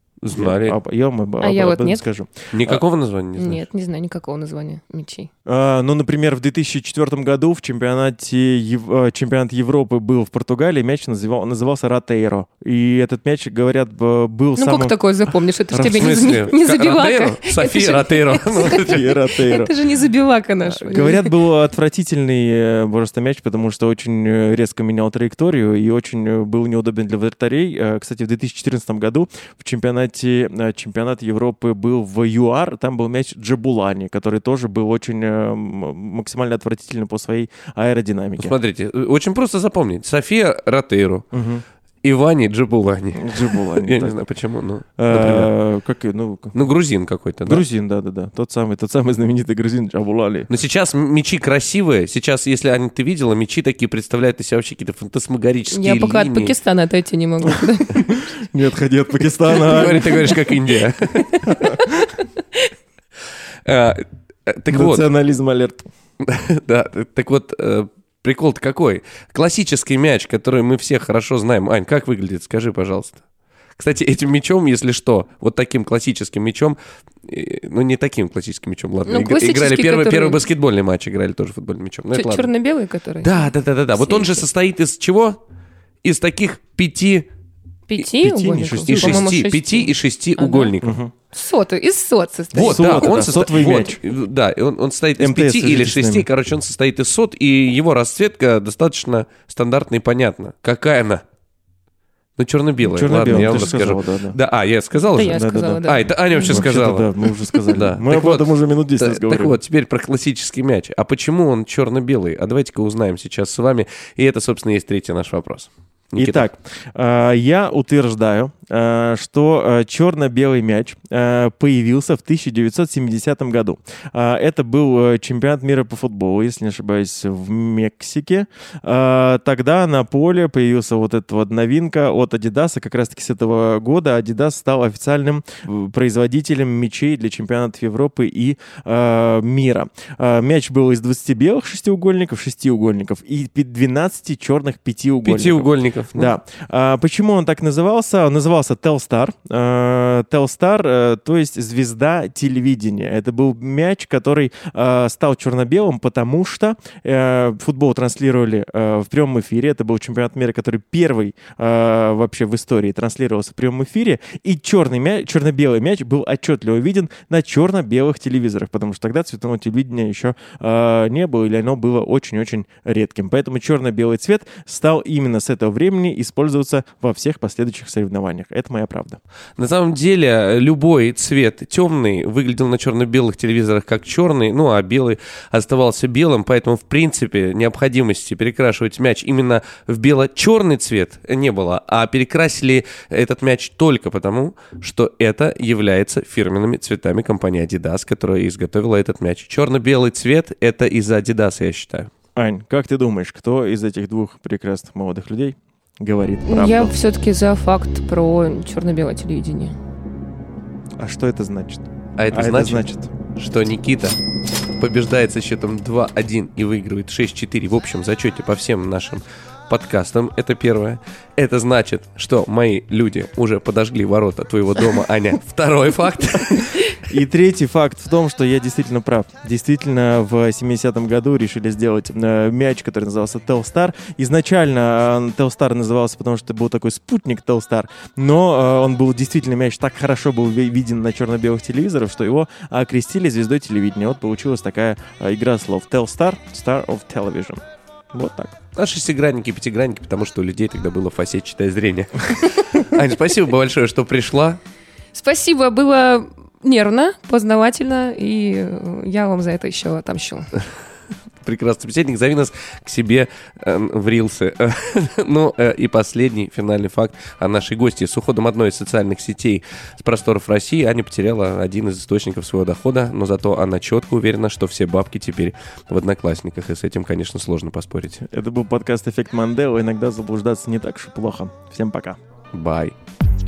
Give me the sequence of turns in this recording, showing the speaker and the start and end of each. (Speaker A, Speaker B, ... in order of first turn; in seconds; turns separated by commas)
Speaker A: 0.2-0.8, Speaker B: 0.3-2.8, Speaker C: 1.4-2.0, Speaker A: 2.5-3.6, Speaker C: 3.4-5.3, Speaker B: 5.5-14.9, Speaker C: 14.6-21.4, Speaker B: 15.7-16.3, Speaker A: 15.9-19.1, Speaker B: 18.7-19.7, Speaker B: 20.8-38.5, Speaker A: 38.4-41.3, Speaker B: 41.3-41.6, Speaker A: 42.0-45.5, Speaker B: 43.2-44.1, Speaker B: 45.0-46.6, Speaker A: 46.5-47.6, Speaker B: 47.5-50.5, Speaker A: 50.5-56.5, Speaker C: 55.7-58.1, Speaker B: 57.9-60.4, Speaker A: 59.5-61.5, Speaker C: 61.2-62.7, Speaker B: 61.5-61.8, Speaker A: 63.7-65.1, Speaker B: 64.7-65.9, Speaker A: 66.2-73.2, Speaker A: 73.8-82.5, Speaker C: 79.1-80.4, Speaker C: 82.1-84.5, Speaker A: 83.2-85.4, Speaker A: 86.0-87.3, Speaker C: 87.9-90.7, Speaker B: 88.2-89.2, Speaker A: 88.9-91.0, Speaker B: 90.8-91.1, Speaker C: 91.3-93.1, Speaker B: 92.5-94.0, Speaker A: 92.5-101.2, Speaker B: 95.2-96.3, Speaker A: 102.4-107.1, Speaker B: 102.9-104.4, Speaker C: 105.2-106.7, Speaker B: 105.3-105.8, Speaker B: 106.5-109.6, Speaker A: 107.7-116.5, Speaker B: 116.2-179.2, Speaker A: 145.2-146.3, Speaker A: 179.6-202.1, Speaker B: 202.4-206.9, Speaker C: 206.5-209.8, Speaker B: 211.0-213.1, Speaker A: 212.2-212.8, Speaker A: 213.4-214.2, Speaker A: 214.8-226.8, Speaker B: 227.1-248.6, Speaker A: 248.8-254.6, Speaker C: 255.1-260.5, Speaker A: 261.4-278.2, Speaker B: 278.2-282.2, Speaker A: 282.5-282.9